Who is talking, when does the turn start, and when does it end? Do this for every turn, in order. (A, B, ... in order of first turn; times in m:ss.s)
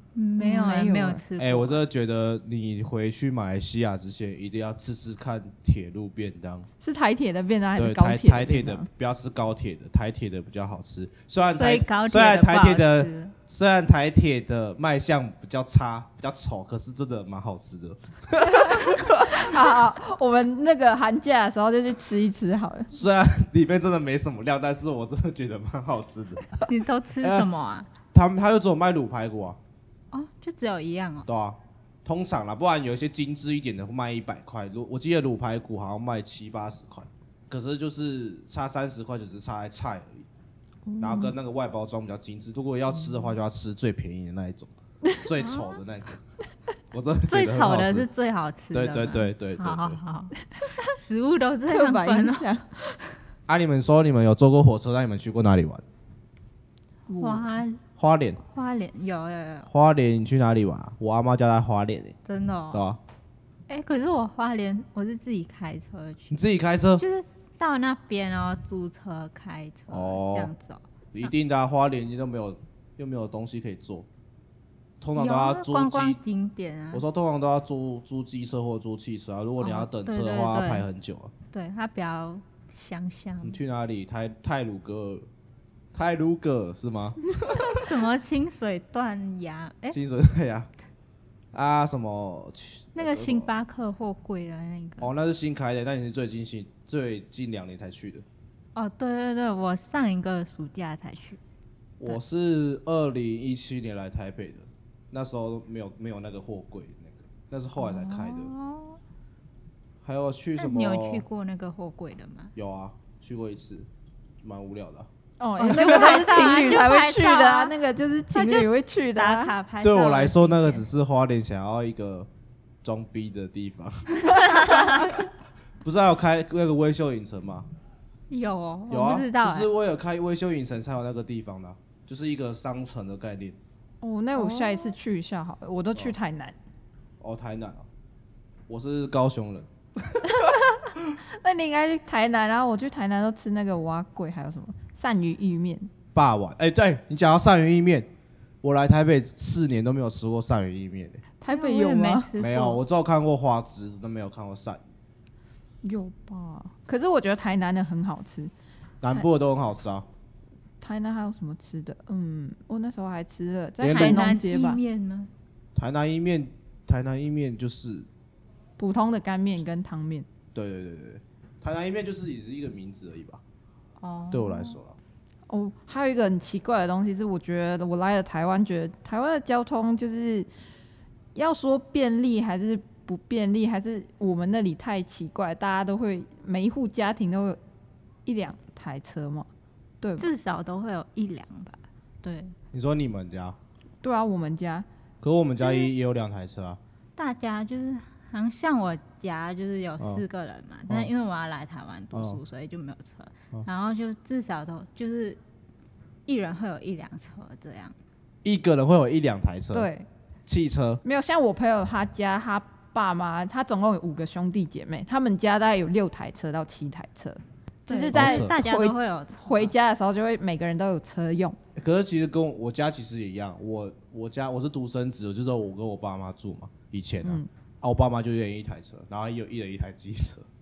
0:00.1-0:01.8 A
0:00.4-0:01.2 B
0:01.4-0:06.7 C
0:06.8-0:08.9 B
0:07.8-0:19.6 C
0:11.5-0:13.3 A
0:18.4-0:22.9 B
0:22.9-0:26.6 C
0:26.6-0:27.9 A
0:28.1-0:29.6 C
0:30.1-0:31.3 A
0:31.3-0:40.2 C
0:40.9-0:41.3 B
0:41.0-0:46.2 C
0:45.4-0:45.8 A
0:46.9-0:48.1 C
0:47.3-0:52.5 A
0:48.7-0:50.0 C
0:51.7-0:52.6 B
0:53.5-0:55.8 C
0:57.1-0:57.6 B
0:57.2-0:57.8 A
0:58.0-0:58.4 C
0:58.4-0:59.7 A
0:59.7-1:02.2 C
1:02.2-1:02.9 A
1:02.7-1:03.0 C
1:03.7-1:06.4 A
1:06.3-1:07.0 C
1:07.0-1:11.3 A
1:09.9-1:10.5 C
1:11.1-1:14.1 C
1:15.0-1:16.2 C
1:15.2-1:17.0 A
1:16.9-1:21.3 C
1:19.6-1:20.8 A
1:21.5-1:23.6 A
1:23.4-1:25.3 C
1:25.9-1:27.8 C
1:27.6-1:30.0 A
1:29.9-1:30.7 C
1:31.5-1:33.5 C
1:33.0-1:35.1 A
1:35.0-1:38.2 C
1:38.7-1:41.4 A
1:42.0-1:48.5 C
1:47.8-1:49.0 A
1:50.0-1:51.2 C
1:50.6-1:52.5 A
1:52.6-1:53.9 C
1:54.4-1:55.1 C
1:55.4-1:59.5 B
1:55.6-1:57.7 A
1:55.7-1:56.2 C
1:58.3-2:00.8 A
1:59.8-2:02.3 C
2:02.8-2:05.3 C
2:04.4-2:05.1 A
2:05.8-2:07.7 C
2:08.3-2:09.7 A
2:08.9-2:13.6 C
2:14.0-2:16.5 B
2:14.4-2:14.9 A
2:17.2-2:17.8 C
2:18.7-2:20.5 C
2:20.2-2:25.9 B
2:26.1-2:28.1 C
2:28.6-2:31.2 C
2:31.4-2:32.3 B
2:31.5-2:32.8 A
2:32.4-2:34.8 C
2:35.8-2:38.5 B
2:39.0-2:40.0 C
2:40.8-2:44.8 B
2:43.8-2:44.2 C
2:43.8-2:45.3 A
2:45.8-2:48.1 C
2:48.8-2:50.2 B
2:50.5-2:53.4 C
2:54.0-2:54.8 A
2:54.3-2:54.9 C
2:55.5-3:00.5 B
3:01.3-3:07.6 B
3:08.2-3:09.5 B
3:10.0-3:10.3 B
3:10.2-3:12.5 A
3:12.7-3:13.6 C
3:14.0-3:14.8 B
3:15.2-3:16.8 C
3:17.2-3:25.4 A
3:22.1-3:22.4 C
3:26.2-3:27.9 A
3:28.4-3:29.9 C
3:29.7-3:30.0 B
3:30.4-3:31.0 C
3:31.0-3:41.6 B
3:37.9-3:39.7 A
3:38.1-3:38.5 C
3:41.8-3:50.5 C
3:47.2-3:47.5 B